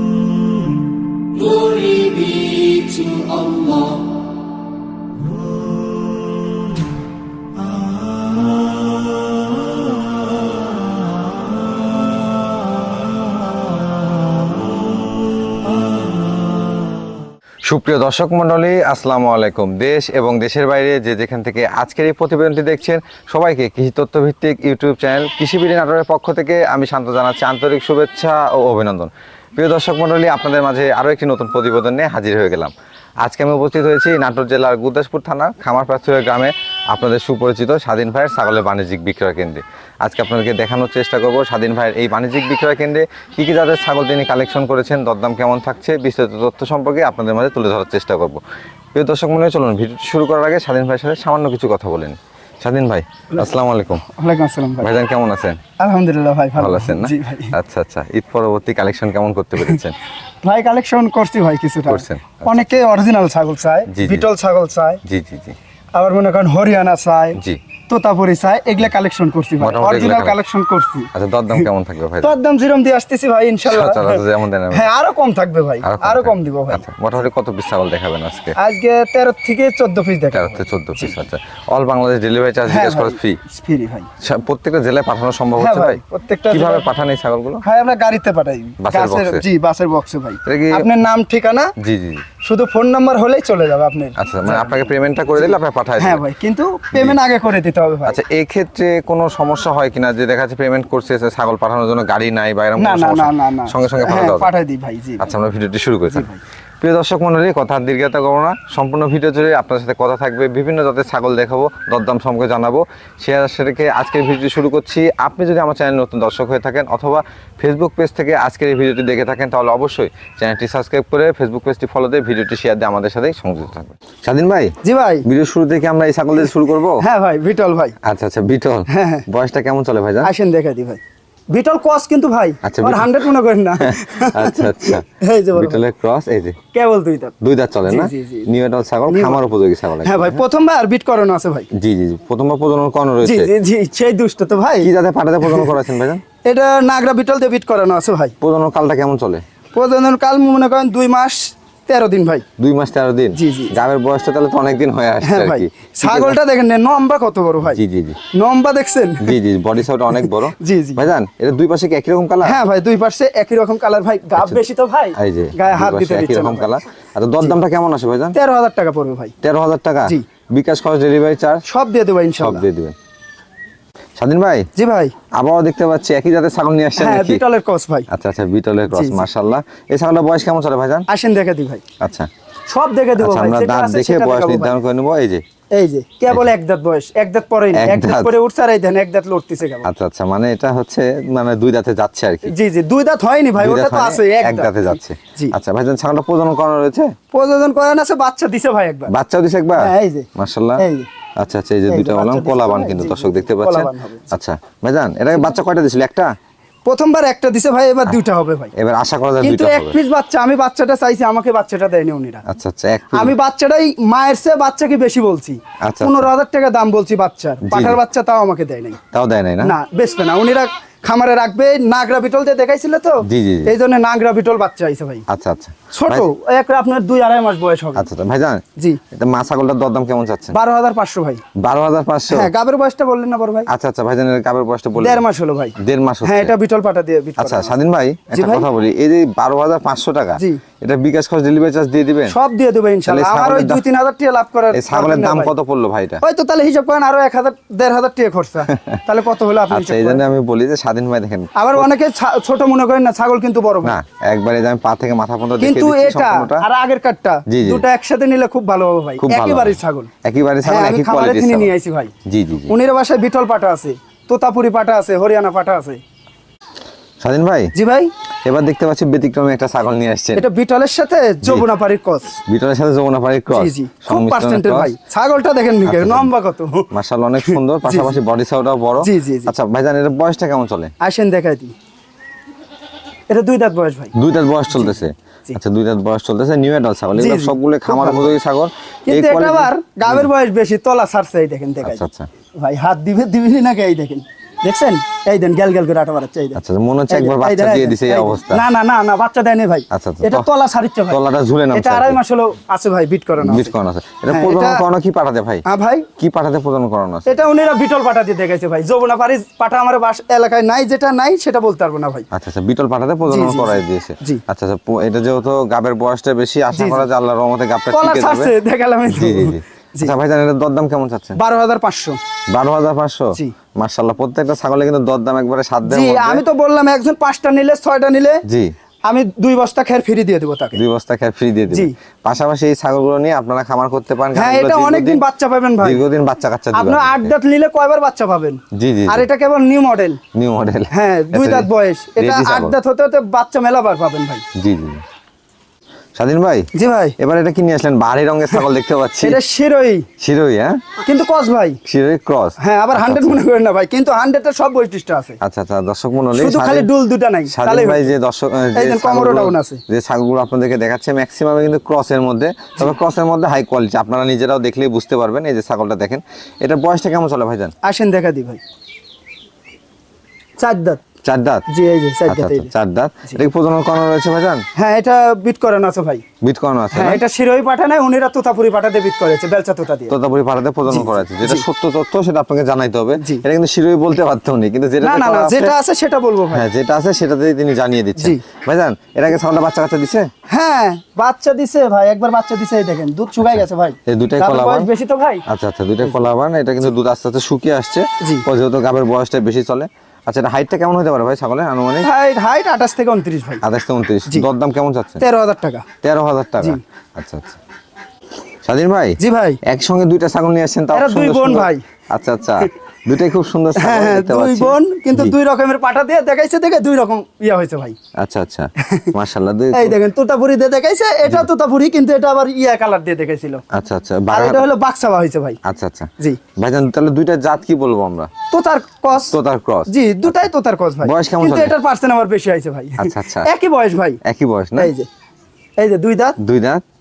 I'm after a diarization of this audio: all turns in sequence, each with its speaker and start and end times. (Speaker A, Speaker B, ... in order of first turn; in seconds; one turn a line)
Speaker A: 1.4-4.0
Speaker B: 17.7-48.4
Speaker B: 49.0-54.0
Speaker C: 54.1-54.9
Speaker B: 54.8-55.6
Speaker C: 55.8-57.5
Speaker B: 56.6-60.0
Speaker C: 60.4-65.0
Speaker B: 61.9-62.7
Speaker B: 63.9-64.3
Speaker B: 65.0-65.6
Speaker C: 66.0-67.4
Speaker C: 67.9-71.7
Speaker B: 69.6-70.4
Speaker B: 71.1-72.3
Speaker C: 72.2-76.9
Speaker B: 73.7-74.9
Speaker B: 75.8-78.6
Speaker C: 78.5-81.2
Speaker B: 80.3-83.4
Speaker C: 82.7-84.1
Speaker B: 84.2-86.0
Speaker C: 85.6-86.9
Speaker B: 86.5-87.6
Speaker C: 87.6-91.7
Speaker B: 88.8-89.4
Speaker B: 90.5-90.9
Speaker B: 91.8-92.2
Speaker C: 92.4-98.2
Speaker B: 94.2-96.2
Speaker B: 98.1-104.5
Speaker C: 102.8-105.3
Speaker B: 105.2-106.3
Speaker C: 106.1-106.4
Speaker B: 106.8-127.0
Speaker C: 124.8-125.3
Speaker C: 127.0-128.0
Speaker B: 128.0-130.3
Speaker C: 128.9-129.3
Speaker C: 130.2-131.0
Speaker C: 131.5-135.8
Speaker B: 132.6-133.3
Speaker B: 133.8-136.6
Speaker C: 136.7-137.3
Speaker B: 137.4-140.4
Speaker C: 137.9-138.5
Speaker C: 139.1-139.4
Speaker C: 140.0-141.7
Speaker B: 141.8-143.5
Speaker C: 143.2-144.9
Speaker B: 144.8-146.2
Speaker C: 145.4-145.7
Speaker C: 146.4-148.3
Speaker B: 148.4-149.4
Speaker C: 149.7-152.4
Speaker B: 152.6-156.4
Speaker C: 153.3-153.8
Speaker C: 155.2-157.8
Speaker B: 157.6-158.2
Speaker C: 158.3-159.4
Speaker B: 159.2-162.6
Speaker C: 160.1-161.0
Speaker C: 162.4-166.8
Speaker B: 165.2-168.4
Speaker C: 168.3-169.3
Speaker B: 169.4-171.6
Speaker C: 171.7-172.7
Speaker B: 172.4-172.9
Speaker B: 174.2-174.7
Speaker C: 174.8-175.2
Speaker B: 175.4-177.4
Speaker C: 177.0-178.1
Speaker B: 178.1-181.1
Speaker C: 178.9-179.3
Speaker C: 181.1-181.8
Speaker B: 182.0-182.3
Speaker C: 182.7-184.8
Speaker B: 183.2-185.4
Speaker C: 185.8-189.9
Speaker B: 187.8-188.3
Speaker B: 189.8-192.5
Speaker C: 192.4-195.6
Speaker B: 193.6-197.1
Speaker C: 197.3-199.1
Speaker B: 199.1-200.8
Speaker C: 199.8-201.1
Speaker B: 201.4-206.3
Speaker C: 201.9-204.3
Speaker C: 206.8-208.7
Speaker B: 208.8-209.9
Speaker C: 209.4-212.4
Speaker B: 212.5-213.3
Speaker C: 213.1-219.0
Speaker B: 215.8-216.3
Speaker B: 217.7-218.0
Speaker B: 219.1-219.8
Speaker C: 219.6-225.2
Speaker B: 223.2-223.7
Speaker B: 225.3-226.3
Speaker C: 225.9-228.1
Speaker B: 227.9-230.6
Speaker C: 230.5-231.4
Speaker B: 231.6-232.5
Speaker C: 232.3-233.7
Speaker B: 233.7-235.2
Speaker C: 235.0-237.8
Speaker B: 235.8-236.5
Speaker B: 237.4-242.3
Speaker C: 238.3-238.7
Speaker C: 240.4-240.6
Speaker C: 242.3-245.5
Speaker B: 243.1-243.8
Speaker B: 244.7-246.2
Speaker C: 246.2-250.2
Speaker B: 248.7-249.0
Speaker B: 249.7-251.9
Speaker C: 251.6-254.0
Speaker B: 253.8-256.6
Speaker C: 255.6-260.1
Speaker B: 257.5-257.9
Speaker B: 259.2-261.7
Speaker C: 260.6-262.1
Speaker B: 262.3-262.7
Speaker C: 262.7-266.0
Speaker B: 267.2-267.7
Speaker C: 267.7-268.1
Speaker B: 268.4-270.4
Speaker C: 270.4-272.4
Speaker B: 272.5-274.9
Speaker C: 273.5-276.9
Speaker B: 275.8-276.3
Speaker B: 276.9-280.9
Speaker C: 277.4-278.2
Speaker C: 279.0-279.5
Speaker C: 281.0-281.8
Speaker C: 283.3-284.1
Speaker B: 284.1-290.3
Speaker C: 284.7-285.6
Speaker C: 287.1-288.4
Speaker C: 289.1-292.0
Speaker B: 291.8-292.3
Speaker C: 292.6-301.2
Speaker B: 296.6-298.6
Speaker B: 299.9-300.5
Speaker B: 301.1-302.2
Speaker C: 301.7-303.7
Speaker B: 303.4-305.6
Speaker C: 304.3-304.8
Speaker C: 305.6-306.1
Speaker B: 306.2-307.3
Speaker C: 307.3-312.3
Speaker B: 312.3-318.5
Speaker C: 313.3-314.4
Speaker C: 316.7-317.1
Speaker C: 317.9-320.1
Speaker B: 319.1-321.4
Speaker C: 321.4-322.2
Speaker B: 322.5-326.4
Speaker C: 325.9-328.4
Speaker B: 328.5-328.7
Speaker C: 329.1-330.8
Speaker B: 330.8-335.2
Speaker C: 334.4-336.0
Speaker B: 335.8-337.3
Speaker C: 336.7-340.2
Speaker B: 338.8-339.2
Speaker B: 340.4-342.8
Speaker C: 340.9-344.4
Speaker B: 344.6-345.0
Speaker B: 346.2-349.4
Speaker C: 346.7-347.2
Speaker C: 349.2-350.1
Speaker B: 350.2-350.8
Speaker C: 351.1-351.8
Speaker B: 351.9-353.4
Speaker C: 352.6-355.4
Speaker B: 355.4-356.9
Speaker C: 356.3-358.1
Speaker B: 357.5-367.7
Speaker C: 358.8-359.8
Speaker C: 367.8-368.6
Speaker C: 370.6-371.0
Speaker B: 371.2-371.6
Speaker C: 371.7-372.7
Speaker B: 372.3-374.6
Speaker C: 374.8-376.2
Speaker B: 376.4-377.2
Speaker C: 376.9-380.2
Speaker B: 380.1-385.8
Speaker C: 380.9-381.7
Speaker C: 383.2-383.4
Speaker C: 385.0-386.6
Speaker B: 386.5-390.3
Speaker C: 388.2-388.4
Speaker C: 390.5-395.4
Speaker B: 394.1-394.9
Speaker B: 395.5-402.1
Speaker C: 398.2-398.5
Speaker C: 402.0-403.6
Speaker B: 403.6-405.2
Speaker C: 405.2-405.9
Speaker B: 406.0-407.6
Speaker B: 408.6-415.4
Speaker C: 409.2-409.6
Speaker C: 410.9-411.8
Speaker C: 413.8-418.0
Speaker B: 418.2-420.0
Speaker C: 418.8-419.1
Speaker C: 419.7-423.6
Speaker B: 423.7-424.6
Speaker C: 424.3-425.6
Speaker B: 425.6-428.3
Speaker C: 428.5-429.4
Speaker B: 429.3-430.4
Speaker C: 429.9-434.2
Speaker B: 431.0-431.7
Speaker B: 433.0-433.5
Speaker B: 434.2-434.9
Speaker C: 434.8-435.1
Speaker C: 435.8-436.4
Speaker B: 436.4-436.8